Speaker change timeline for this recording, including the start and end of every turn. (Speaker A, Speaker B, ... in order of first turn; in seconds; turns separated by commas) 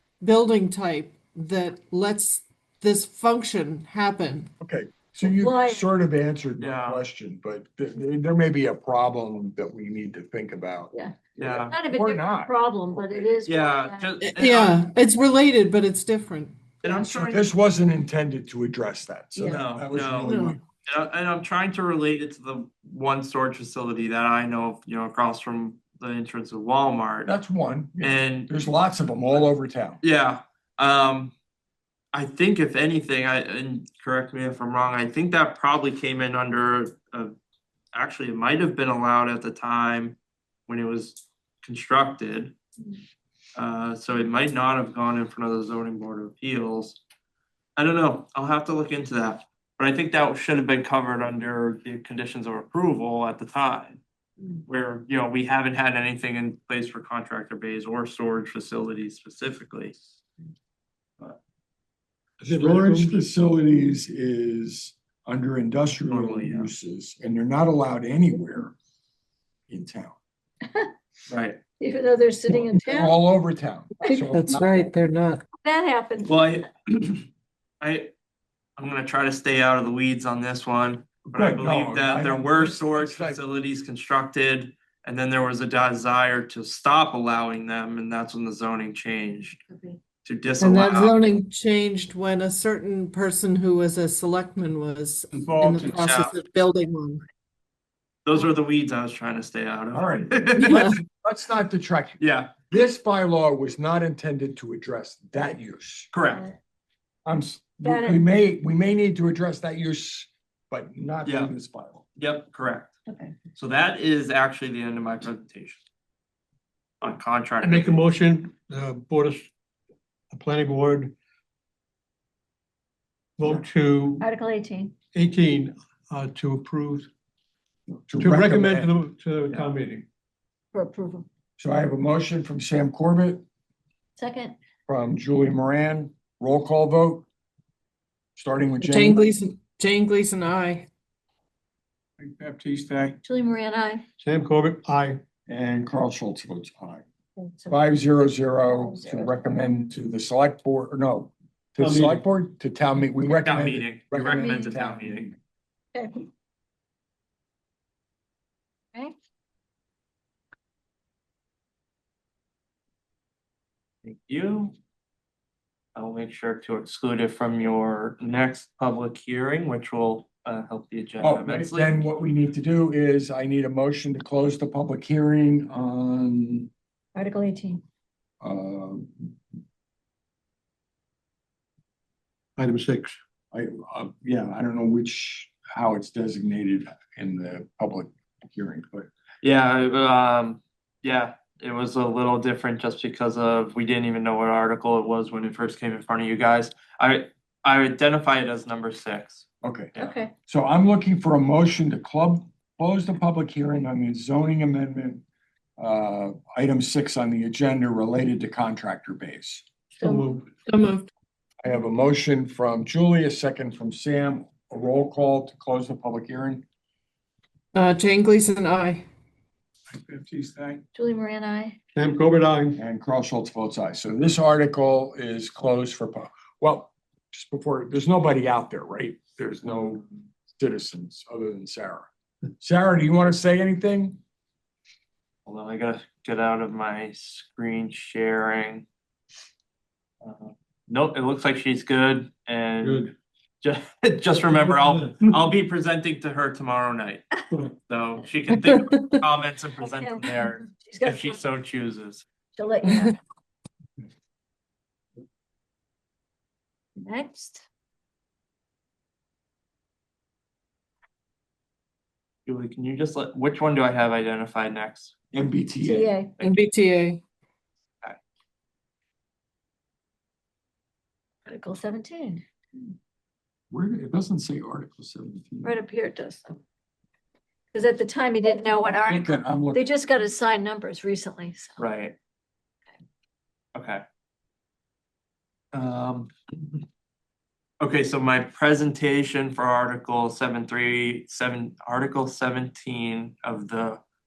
Speaker A: 0.2-4.5, Speaker B: 4.6-10.9, Speaker C: 5.3-5.9, Speaker D: 6.6-7.0, Speaker C: 10.9-14.2, Speaker D: 11.4-11.8, Speaker B: 11.9-12.5, Speaker D: 13.4-14.9, Speaker A: 14.2-16.6, Speaker D: 16.8-17.4, Speaker B: 17.0-20.6, Speaker C: 19.4-19.6, Speaker D: 19.5-27.3, Speaker A: 20.2-20.6, Speaker B: 27.2-30.0, Speaker D: 28.0-28.5, Speaker D: 30.0-31.3, Speaker D: 32.1-37.3, Speaker D: 37.9-42.5, Speaker D: 43.5-47.0, Speaker D: 47.8-54.0, Speaker D: 54.6-60.0, Speaker E: 62.4-63.2, Speaker B: 62.4-68.7, Speaker D: 66.0-66.7, Speaker B: 69.7-70.2, Speaker D: 71.3-71.6, Speaker C: 71.8-73.2, Speaker B: 72.8-74.7, Speaker A: 74.3-75.4, Speaker C: 75.6-76.4, Speaker D: 76.2-77.3, Speaker D: 77.8-78.1, Speaker D: 78.8-89.6, Speaker B: 81.3-83.4, Speaker C: 89.7-90.0, Speaker D: 90.2-91.2, Speaker A: 90.6-97.2, Speaker D: 95.4-96.3, Speaker D: 98.2-100.9, Speaker B: 99.9-106.1, Speaker D: 102.2-102.5, Speaker D: 106.1-106.5, Speaker B: 107.2-112.0, Speaker C: 107.8-108.2, Speaker D: 111.2-111.5, Speaker D: 112.2-112.9, Speaker C: 113.1-113.4, Speaker D: 113.5-115.8, Speaker D: 117.0-118.0, Speaker E: 117.6-119.5, Speaker E: 120.3-121.1, Speaker E: 123.4-124.2, Speaker C: 124.2-124.9, Speaker E: 125.1-127.1, Speaker B: 127.9-128.9, Speaker E: 128.2-130.1, Speaker C: 130.7-131.3, Speaker B: 131.6-133.4, Speaker C: 134.2-134.6, Speaker B: 134.9-137.3, Speaker B: 138.4-139.2, Speaker A: 138.8-140.9, Speaker E: 142.2-143.2, Speaker C: 143.2-144.1, Speaker E: 144.2-145.2, Speaker B: 145.5-147.0, Speaker C: 147.4-147.9, Speaker B: 147.7-155.4, Speaker C: 148.7-149.6, Speaker E: 151.8-152.2, Speaker D: 153.4-155.3, Speaker C: 154.2-154.7, Speaker C: 155.9-156.3, Speaker D: 164.0-164.8, Speaker D: 165.9-171.9, Speaker B: 171.2-176.7, Speaker C: 177.2-177.8, Speaker B: 178.4-179.3, Speaker E: 182.6-183.2, Speaker B: 183.5-189.1, Speaker D: 189.4-199.5, Speaker B: 199.6-205.2, Speaker C: 199.9-200.3, Speaker B: 205.8-209.7, Speaker E: 210.0-210.5, Speaker A: 210.7-211.1, Speaker B: 211.6-216.6, Speaker A: 217.7-219.0, Speaker E: 220.1-220.8, Speaker C: 220.9-221.8, Speaker E: 221.9-222.8, Speaker B: 222.8-232.1, Speaker B: 232.6-234.2, Speaker D: 235.5-238.8, Speaker D: 240.2-252.3, Speaker E: 242.8-243.1, Speaker E: 244.7-245.3, Speaker A: 248.7-249.0, Speaker C: 249.8-251.4, Speaker C: 252.6-253.2, Speaker C: 257.0-257.6, Speaker D: 262.4-265.1, Speaker B: 265.3-266.1, Speaker C: 265.8-266.3, Speaker A: 266.4-267.2, Speaker C: 271.4-272.9, Speaker B: 273.7-275.8, Speaker C: 275.6-276.6, Speaker C: 277.7-281.8, Speaker B: 279.0-279.9, Speaker D: 281.8-282.1, Speaker D: 283.8-284.0, Speaker D: 285.7-286.3, Speaker D: 287.8-294.0